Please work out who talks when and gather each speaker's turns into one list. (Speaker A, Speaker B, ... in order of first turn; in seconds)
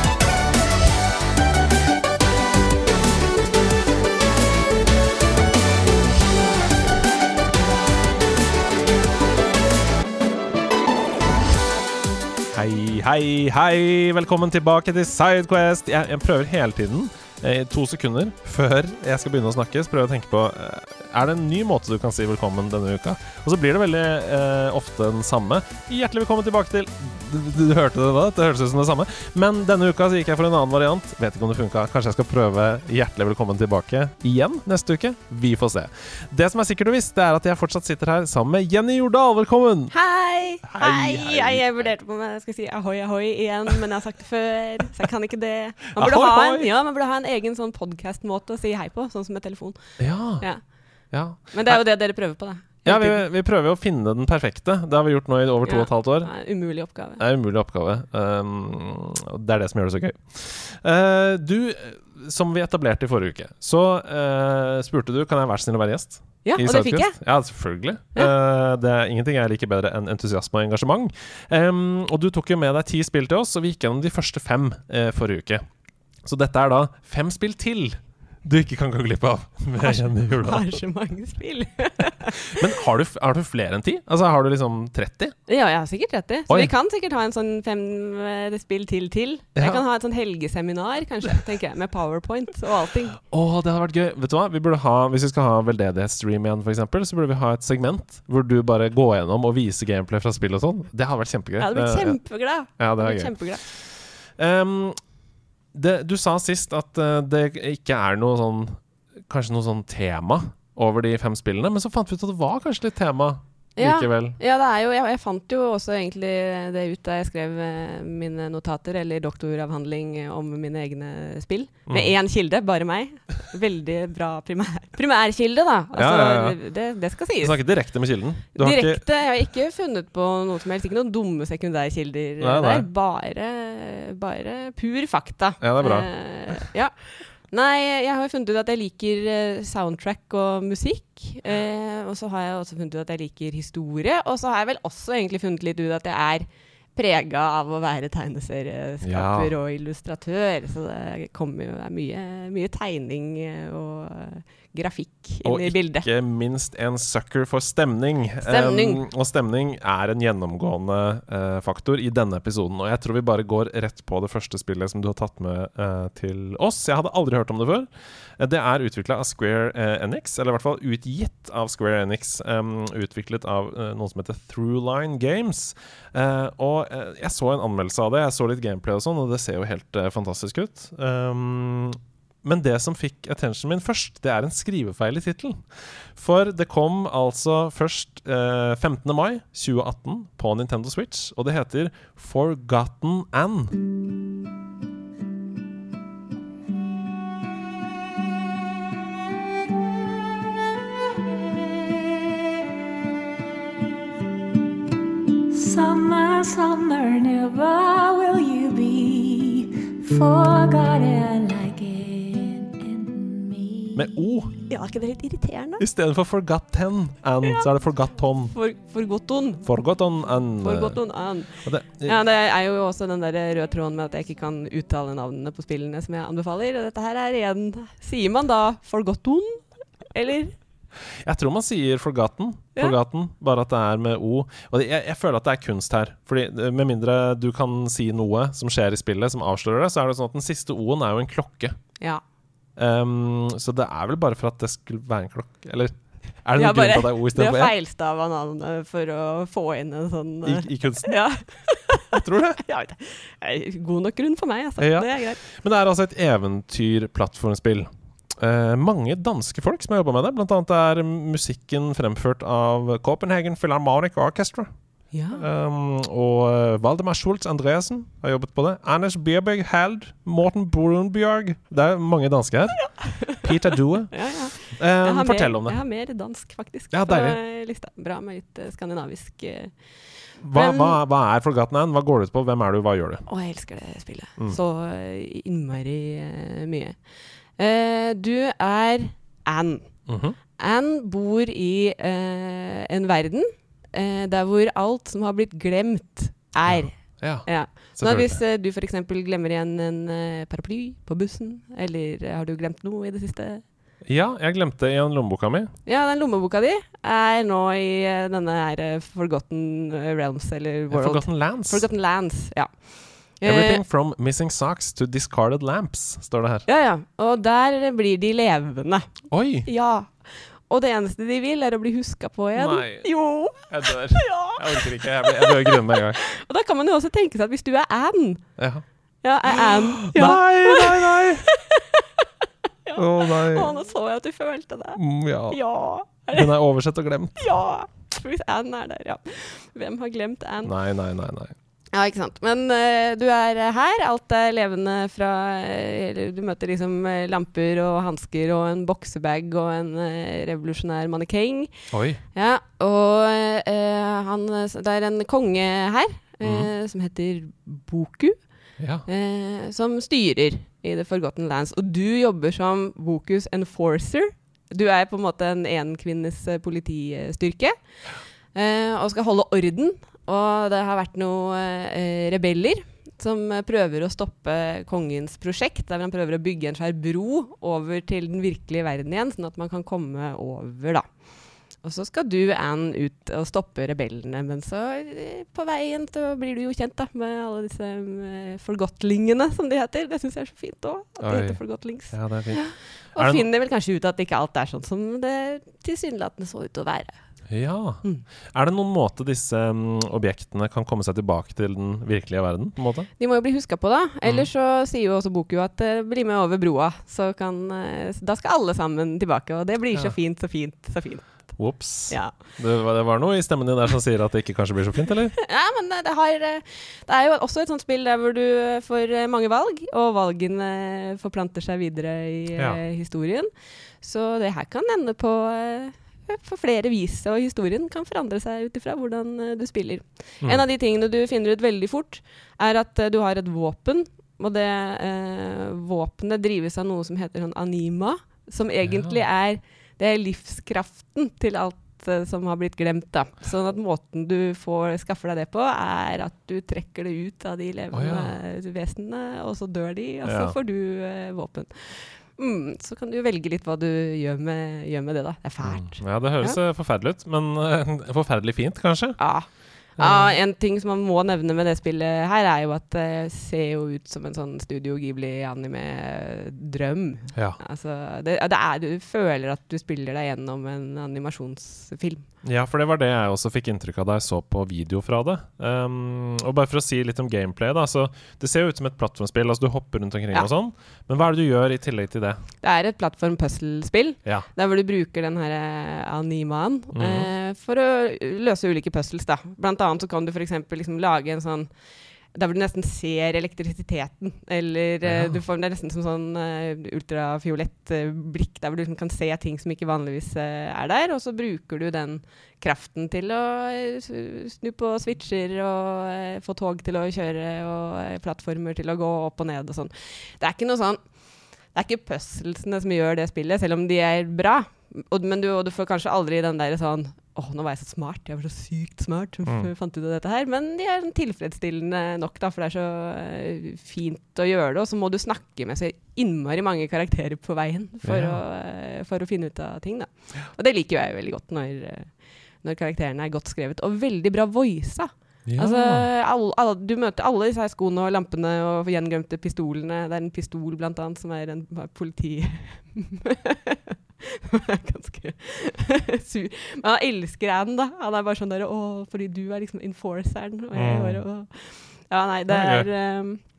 Speaker A: 12.5-39.9, 40.6-41.9, 46.0-46.7, 50.0-50.5, 51.1-52.0, 52.8-56.3, 57.2-75.6, 76.2-80.8, 82.2-85.3, 89.5-89.8, 93.2-105.0, 105.7-114.3, 121.9-122.1, 125.9-126.6, 127.4-129.0, 132.4-132.9, 135.6-136.1, 149.0-149.5, 155.4-193.8, 213.9-214.5, 215.8-218.5, 219.6-221.0, 221.6-222.2, 231.2-241.7, 242.8-247.7, 250.4-251.2, 252.1-252.6, 254.8-264.7, 265.4-275.8, 276.9-277.4, 280.4-283.2, 290.1-290.4, 296.6-298.4, 304.1-305.7, 310.9-311.8, 313.4-316.6, 319.3-319.7, 322.6-326.2, 328.6-328.8, 329.5-331.4, 332.9-333.7, 334.9-335.6, 336.3-337.4, 340.6-341.5, 351.9-352.2, 356.4-356.7, 358.8-359.1, 391.2-393.4, 397.5-403.1, 411.6-415.3, 438.8-439.1, 447.9-448.3, 450.2-450.5, 455.6-459.3, 459.9-460.3, 472.4-482.4, 486.9-487.3, 495.0-495.4, 519.5-519.7, 528.0-528.4, 535.5-536.1, 550.7-551.2, 552.5-552.9
Speaker B: 39.9-50.6, 51.5-53.2, 55.6-57.2, 66.4-67.2, 79.8-82.8, 85.5-93.2, 101.6-103.6, 113.8-127.5, 128.6-156.1, 158.4-159.0, 214.7-215.8, 218.5-219.7, 220.6-230.6, 246.6-255.4, 265.1-265.5, 272.9-273.5, 274.1-279.7, 280.5-281.0, 283.3-287.0, 287.6-290.0, 290.6-303.6, 305.9-312.8, 313.3-313.8, 316.7-328.4, 329.2-332.2, 332.9-336.5, 337.4-340.7, 341.9-351.7, 352.3-358.4, 359.1-367.8, 368.5-381.0, 381.8-397.2, 403.2-412.3, 415.4-423.5, 424.0-456.6, 459.2-472.2, 482.6-491.7, 492.3-511.1, 511.7-553.4
Speaker C: 205.5-214.1